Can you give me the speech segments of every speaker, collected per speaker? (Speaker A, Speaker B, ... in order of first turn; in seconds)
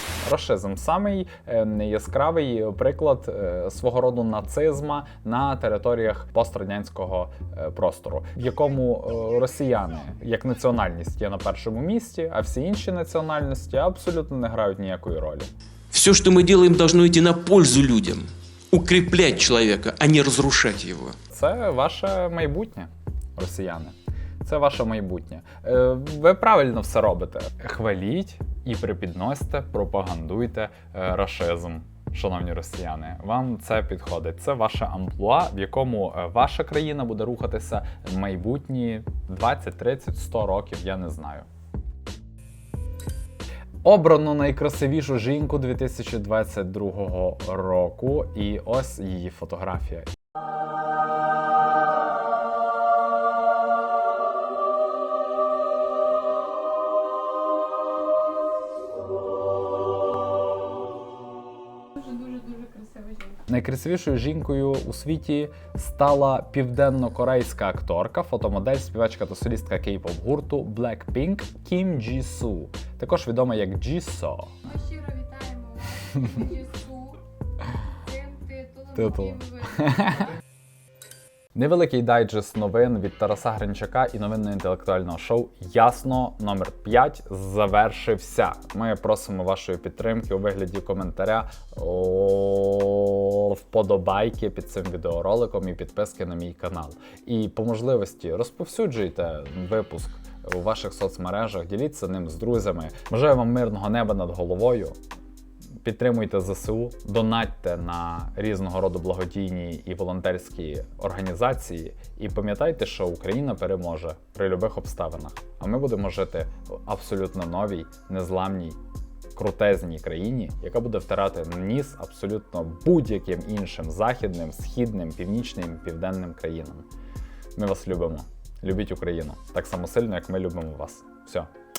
Speaker A: 0.2-15.5, 21.3-41.5, 43.8-50.1, 63.5-74.6, 78.9-80.3, 81.5-105.0, 105.8-118.8, 119.3-126.8, 127.5-131.5
Speaker B: 15.9-21.1
Speaker C: 62.0-63.3, 74.7-77.2, 78.0-80.1